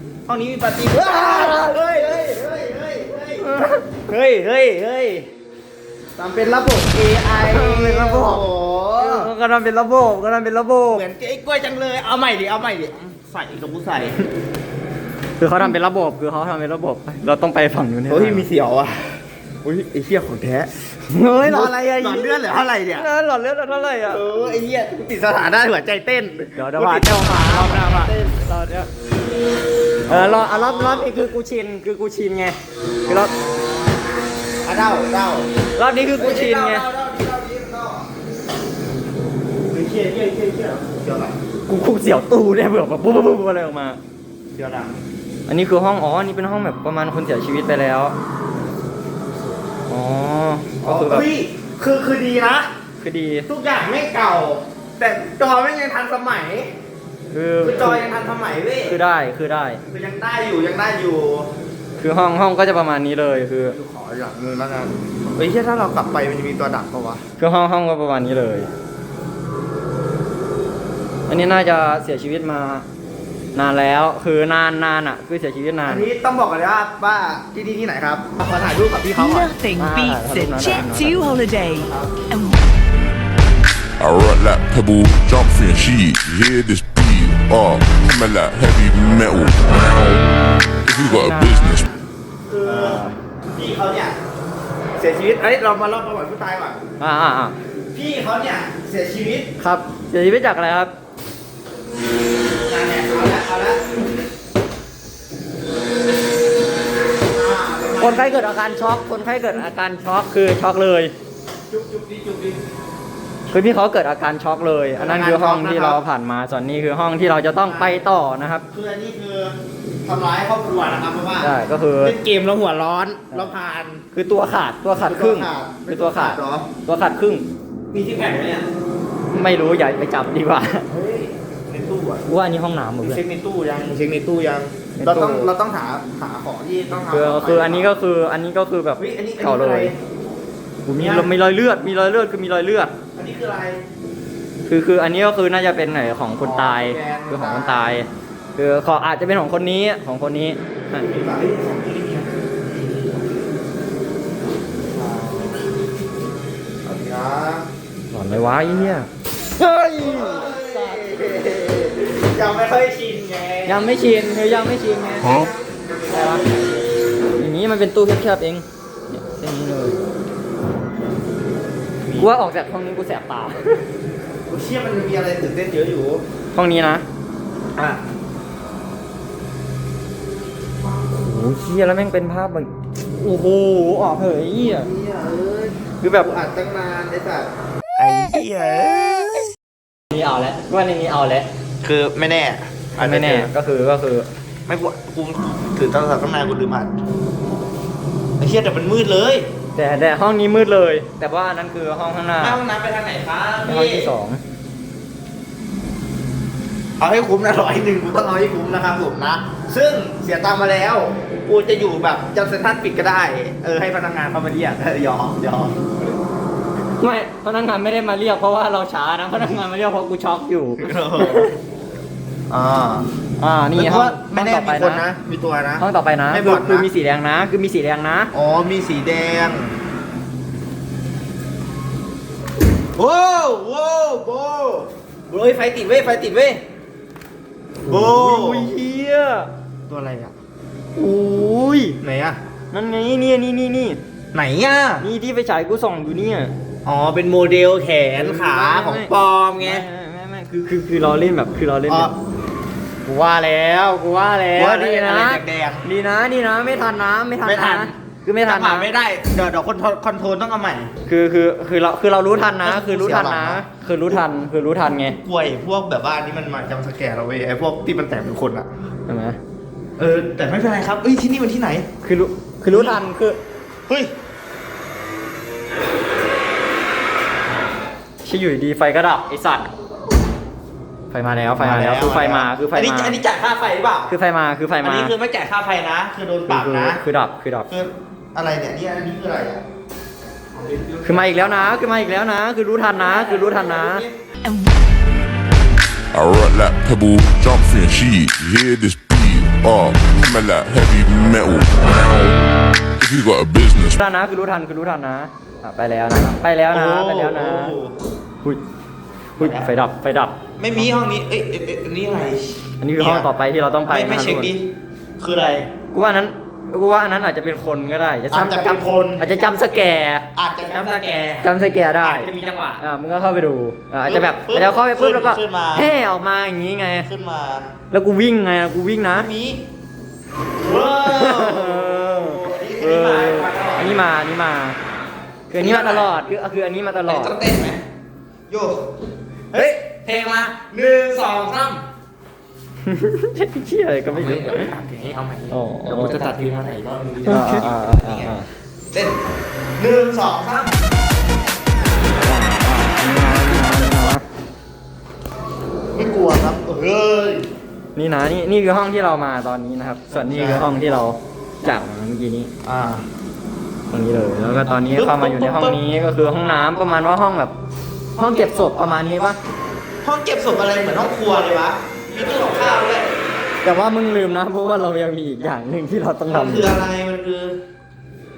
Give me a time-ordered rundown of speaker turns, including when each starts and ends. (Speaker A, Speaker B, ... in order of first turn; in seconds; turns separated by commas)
Speaker A: 0.3-5.3, Speaker B: 1.0-1.9, Speaker B: 3.4-3.8, Speaker A: 6.2-9.3, Speaker B: 7.4-8.4, Speaker B: 9.0-11.0, Speaker A: 10.9-14.2, Speaker B: 15.4-18.5, Speaker A: 18.1-20.7, Speaker B: 21.1-24.2, Speaker A: 21.4-23.1, Speaker A: 24.1-28.1, Speaker B: 26.6-28.9, Speaker A: 30.0-31.1, Speaker B: 30.1-33.3, Speaker A: 33.0-34.0, Speaker A: 34.6-35.5, Speaker B: 35.8-36.9, Speaker A: 36.1-38.1, Speaker A: 39.7-41.4, Speaker B: 41.7-44.0, Speaker A: 44.5-45.0, Speaker B: 45.5-48.1, Speaker B: 49.9-51.2, Speaker A: 50.8-52.7, Speaker B: 53.0-53.5, Speaker A: 53.5-56.7, Speaker B: 57.3-58.1, Speaker A: 57.6-59.0, Speaker B: 58.8-59.8, Speaker A: 59.9-61.5, Speaker B: 62.0-63.8, Speaker A: 63.7-67.2, Speaker B: 67.4-68.7, Speaker B: 71.3-72.8, Speaker B: 73.5-76.1, Speaker A: 75.8-79.5, Speaker C: 79.1-82.6, Speaker B: 79.8-81.4, Speaker A: 81.7-82.2, Speaker D: 84.0-91.9, Speaker B: 90.9-91.8, Speaker A: 92.5-94.2, Speaker B: 92.6-93.1, Speaker A: 95.0-96.8, Speaker B: 97.0-97.6, Speaker A: 97.9-99.5, Speaker B: 99.6-100.9, Speaker A: 102.7-103.8, Speaker A: 107.3-108.4, Speaker B: 108.0-111.1, Speaker A: 111.7-112.6, Speaker B: 113.5-118.7, Speaker A: 115.0-116.0, Speaker A: 117.6-118.0, Speaker A: 118.7-124.0, Speaker B: 121.4-122.2, Speaker B: 124.1-127.5, Speaker A: 124.9-126.7, Speaker A: 127.9-128.7, Speaker B: 129.3-130.9, Speaker A: 130.9-132.2, Speaker B: 132.2-133.2, Speaker A: 133.0-137.9, Speaker B: 134.9-135.5, Speaker B: 137.1-139.9, Speaker A: 139.0-140.0, Speaker B: 140.8-142.9, Speaker A: 141.0-141.3, Speaker A: 143.1-143.8, Speaker B: 144.7-151.1, Speaker A: 146.4-147.9, Speaker A: 150.9-153.2, Speaker A: 154.9-155.6, Speaker A: 156.8-157.7, Speaker B: 158.1-160.6, Speaker A: 158.3-158.9, Speaker A: 159.9-166.8, Speaker B: 163.7-165.5, Speaker B: 166.1-166.4, Speaker B: 167.4-170.0, Speaker B: 172.1-173.8, Speaker A: 174.5-176.2, Speaker B: 176.5-177.0, Speaker B: 181.2-184.9, Speaker A: 184.7-189.5, Speaker B: 190.1-191.5, Speaker A: 191.8-193.5, Speaker B: 193.0-194.3, Speaker A: 194.7-196.9, Speaker A: 198.4-199.5, Speaker B: 199.8-202.6, Speaker A: 202.4-204.1, Speaker B: 203.6-204.4, Speaker A: 207.0-215.8, Speaker B: 217.0-221.5, Speaker A: 220.8-221.5, Speaker A: 222.5-223.1, Speaker B: 223.4-225.0, Speaker A: 223.7-226.9, Speaker B: 225.8-228.3, Speaker A: 228.3-229.8, Speaker A: 232.9-236.6, Speaker A: 237.8-238.7, Speaker B: 237.9-239.5, Speaker A: 239.9-240.3, Speaker B: 240.9-242.0, Speaker A: 242.0-242.4, Speaker B: 242.7-244.0, Speaker A: 244.3-245.1, Speaker B: 245.0-246.5, Speaker A: 246.8-249.8, Speaker B: 248.1-252.1, Speaker A: 251.9-252.1, Speaker B: 253.1-258.9, Speaker A: 254.5-255.8, Speaker A: 257.4-260.9, Speaker B: 261.1-265.2, Speaker A: 262.6-264.2, Speaker A: 264.9-268.7, Speaker B: 269.1-269.4, Speaker A: 270.0-271.9, Speaker B: 272.0-273.4, Speaker A: 272.7-273.0, Speaker B: 278.2-279.7, Speaker B: 281.1-283.2, Speaker A: 281.5-284.1, Speaker B: 284.1-285.1, Speaker A: 284.8-287.0, Speaker B: 286.5-287.7, Speaker A: 287.7-289.6, Speaker A: 290.5-291.8, Speaker B: 291.0-294.0, Speaker A: 292.9-294.2, Speaker C: 294.4-294.9, Speaker D: 296.1-302.5, Speaker D: 303.0-304.0, Speaker B: 304.0-307.7, Speaker A: 306.7-307.9, Speaker B: 309.4-310.4, Speaker A: 309.4-309.7, Speaker A: 310.6-313.3, Speaker B: 312.8-314.5, Speaker A: 313.9-314.7, Speaker A: 315.2-315.7, Speaker B: 315.9-320.3, Speaker A: 318.3-319.4, Speaker A: 320.3-322.8, Speaker B: 321.4-327.1, Speaker A: 324.0-325.9, Speaker A: 327.0-327.7, Speaker B: 327.9-329.3, Speaker A: 329.1-329.6, Speaker A: 330.6-334.0, Speaker B: 331.0-334.8, Speaker B: 335.5-337.4, Speaker A: 335.6-336.1, Speaker A: 337.0-337.8, Speaker A: 338.5-338.9, Speaker A: 339.5-341.8, Speaker B: 342.9-344.7, Speaker A: 344.1-348.3, Speaker B: 345.5-346.2, Speaker B: 347.2-348.5, Speaker A: 348.9-349.1, Speaker A: 349.8-350.8, Speaker B: 352.2-354.2, Speaker A: 355.9-357.5, Speaker B: 357.9-362.5, Speaker A: 360.1-361.0, Speaker A: 362.6-363.0, Speaker B: 363.9-367.5, Speaker A: 364.6-365.8, Speaker A: 368.2-369.3, Speaker B: 368.2-369.4, Speaker A: 370.0-373.1, Speaker B: 373.6-376.7, Speaker A: 376.3-377.6